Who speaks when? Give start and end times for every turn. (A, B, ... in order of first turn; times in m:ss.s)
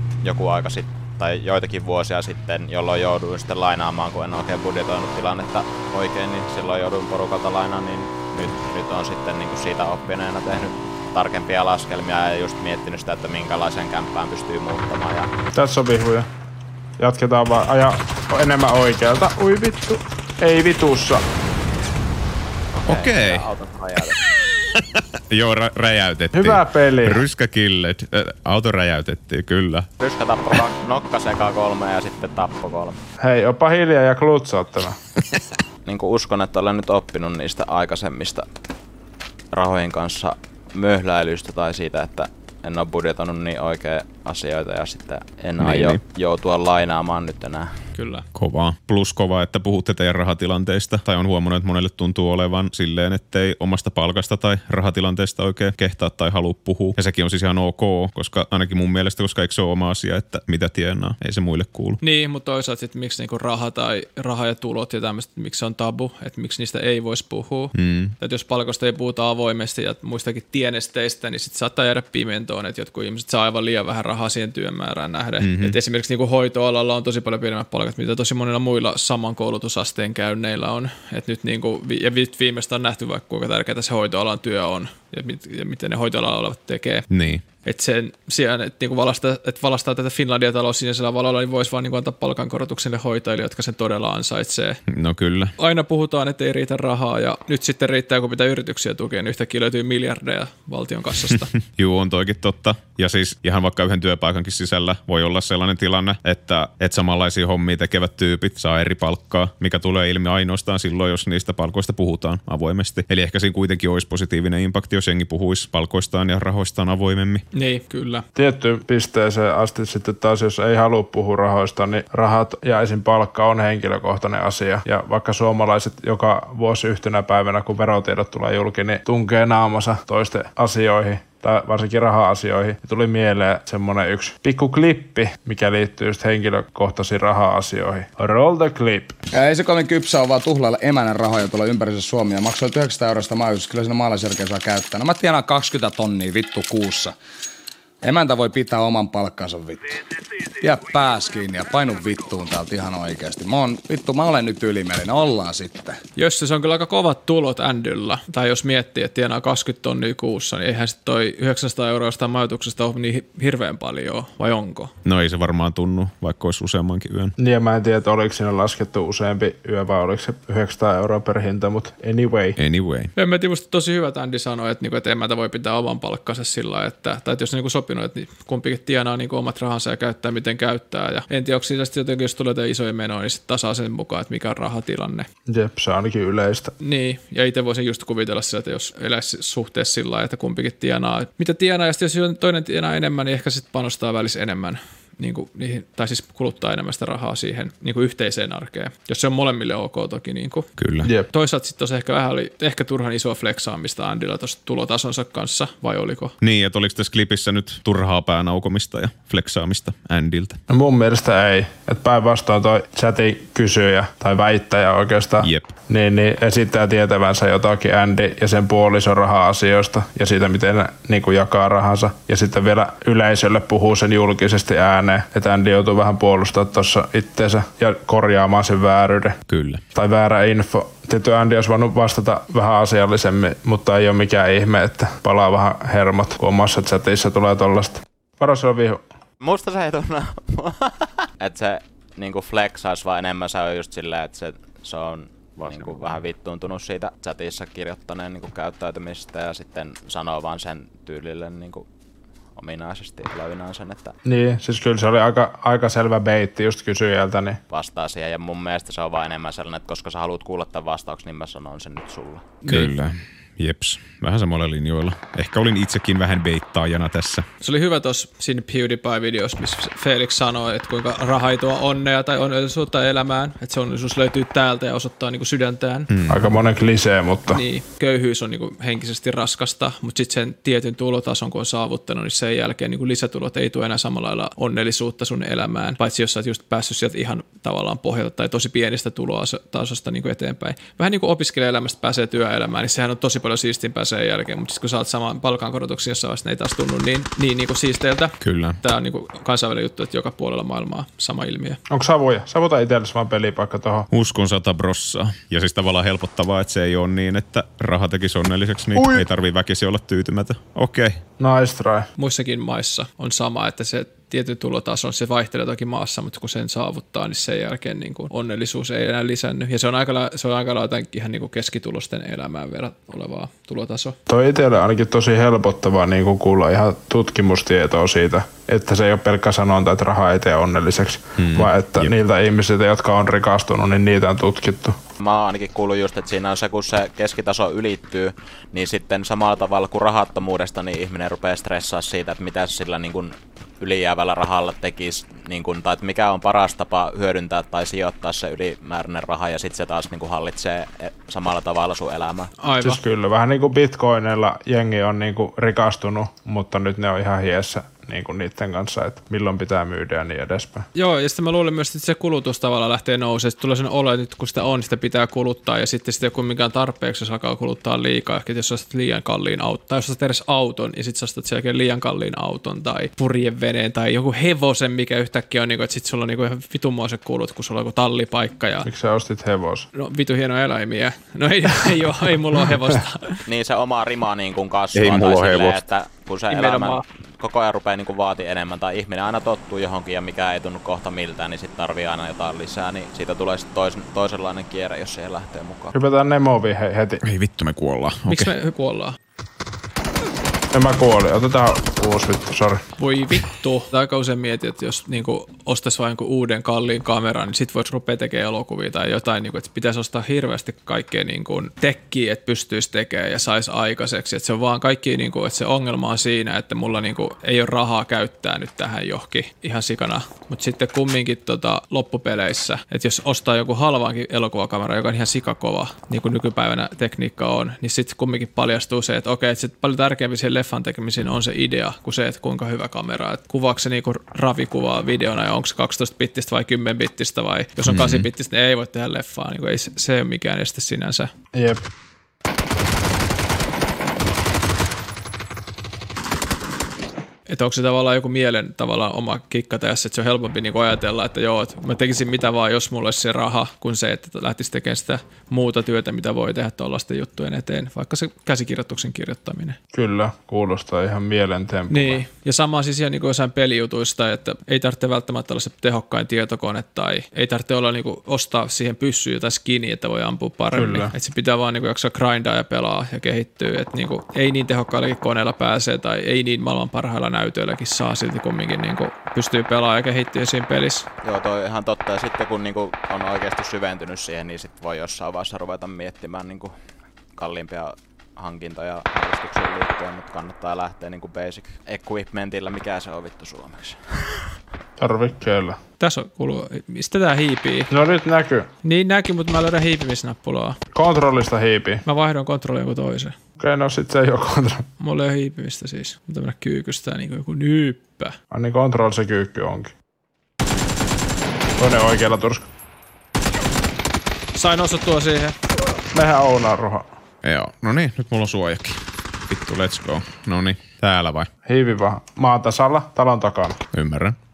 0:00.2-0:15.3 A
0:15.5-0:16.3 B
0:17.0-0:21.2 B
0:22.8-0:24.2 A
0:22.9-0:23.5 C
0:24.8-0:29.9 C
0:26.3-0:27.2 B
0:30.0-0:33.0 A
0:33.2-0:35.0 B
0:35.9-0:38.5 A
0:39.5-0:47.7 A
0:45.6-0:46.0 C
0:48.0-0:48.3 D
0:48.3-1:02.0 C
1:02.0-1:27.0 D
1:07.8-1:08.2 C
1:15.4-1:15.8 C
1:27.1-1:27.4 C
1:27.6-1:34.8 D
1:34.9-1:35.5 C
1:35.6-1:41.5 D
1:41.7-1:57.4 C
1:57.5-1:58.2 D
1:58.4-2:19.2 B
2:19.3-2:27.2 E
2:28.0-2:30.0 E
2:30.6-2:36.0 E
2:36.2-2:44.9 D
2:45.0-2:47.4 C
2:47.4-2:52.6 B
2:52.6-2:53.1 C
2:53.2-3:05.3 D
3:05.5-3:06.7 B
3:06.8-3:20.7 D
3:20.8-3:21.1 C
3:21.3-3:26.3 D
3:26.4-3:30.6 C
3:30.7-3:49.4 B
3:35.4-3:35.7 C
3:49.5-3:49.8 C
3:49.9-3:59.0 B
3:59.4-4:11.9 A
4:12.6-4:14.2 A
4:14.2-4:17.6 B
4:17.7-4:22.6 A
4:22.7-4:27.5 C
4:27.6-4:36.1 D
4:36.1-4:36.5 C
4:36.3-4:37.6 B
4:37.5-5:01.8 D
4:58.4-4:58.8 C
5:01.9-5:04.1 B
5:04.1-5:11.2 C
5:09.0-5:09.2 B
5:11.4-5:12.1 B
5:12.2-5:24.2 D
5:24.3-5:35.0 B
5:31.4-5:31.7 C
5:35.2-5:52.5 A
5:52.6-5:53.0 D
5:52.8-6:00.9 B
6:01.0-6:18.9 D
6:18.8-6:19.9 B
6:20.0-6:23.4 D
6:23.5-6:35.9 A
6:24.9-6:25.8 C
6:26.5-6:27.0 D
6:35.9-6:37.2 B
6:37.3-6:38.5 C
6:38.3-6:39.2 D
6:40.7-6:42.8 B
6:43.0-7:21.3 D
7:17.9-7:18.3 C
7:21.5-7:21.8 B
7:27.5-7:39.8 D
7:39.9-7:42.2 B
7:41.9-8:01.1 D
7:50.7-7:51.1 B
8:01.2-8:06.8 A
8:07.4-8:14.4 A
8:15.0-8:15.8 B
8:16.0-8:17.9 D
8:17.9-8:18.7 B
8:18.8-8:20.8 D
8:20.9-8:22.0 B
8:22.0-8:23.4 D
8:23.6-8:24.8 B
8:25.0-8:28.4 D
8:28.5-8:29.9 B
8:31.8-8:32.7 B
8:34.6-8:35.6 D
8:36.1-8:37.1 B
8:37.4-8:41.5 C
8:41.7-8:43.8 B
8:43.9-8:44.4 C